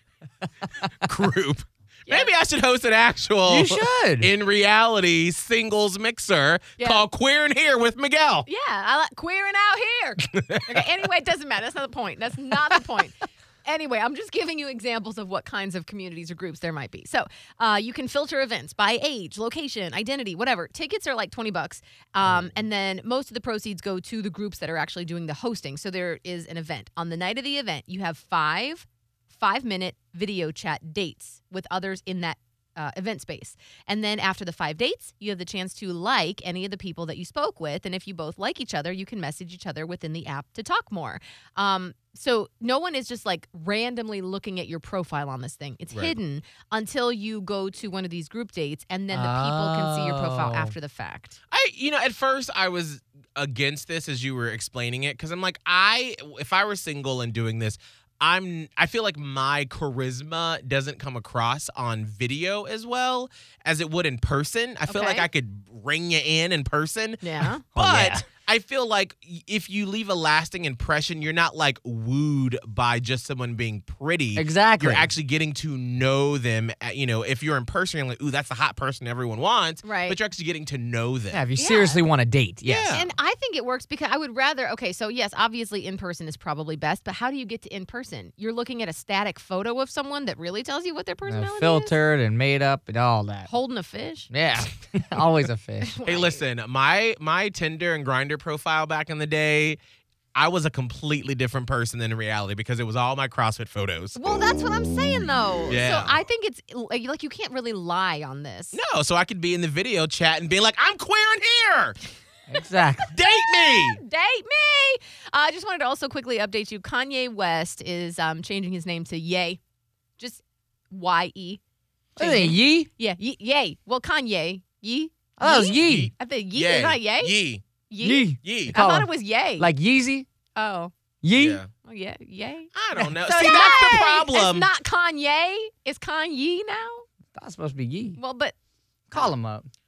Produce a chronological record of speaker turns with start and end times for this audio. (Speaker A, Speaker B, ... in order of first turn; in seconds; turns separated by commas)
Speaker A: 1.0-8.5, Speaker B: 3.5-4.3, Speaker C: 6.8-7.0, Speaker C: 8.4-51.4, Speaker A: 10.2-10.8, Speaker A: 45.9-46.1, Speaker B: 49.1-50.7, Speaker A: 51.5-81.4, Speaker C: 64.9-65.3, Speaker C: 67.2-67.7, Speaker B: 67.8-68.2, Speaker B: 74.3-75.1, Speaker C: 79.8-80.2, Speaker B: 81.3-83.0, Speaker C: 81.6-82.0, Speaker A: 82.6-83.1, Speaker C: 82.9-91.9, Speaker B: 91.2-93.5, Speaker C: 93.5-94.3, Speaker B: 94.3-95.9, Speaker C: 95.8-96.4, Speaker A: 96.0-99.8, Speaker A: 100.3-104.2, Speaker C: 104.2-108.8, Speaker A: 105.7-106.2, Speaker A: 108.7-112.0, Speaker B: 112.5-113.1, Speaker A: 113.0-114.0, Speaker C: 113.3-119.6, Speaker C: 120.2-121.6, Speaker C: 122.2-127.4, Speaker B: 122.2-122.9, Speaker B: 125.4-126.1, Speaker A: 125.8-127.6, Speaker C: 127.9-129.7, Speaker B: 128.0-130.2, Speaker A: 128.4-128.8, Speaker C: 130.6-130.9, Speaker B: 131.2-131.6, Speaker A: 131.4-131.7, Speaker C: 131.8-132.7, Speaker A: 132.7-134.7, Speaker B: 132.9-133.8, Speaker C: 133.3-137.0, Speaker B: 137.3-138.2, Speaker C: 138.2-138.5, Speaker B: 139.1-139.7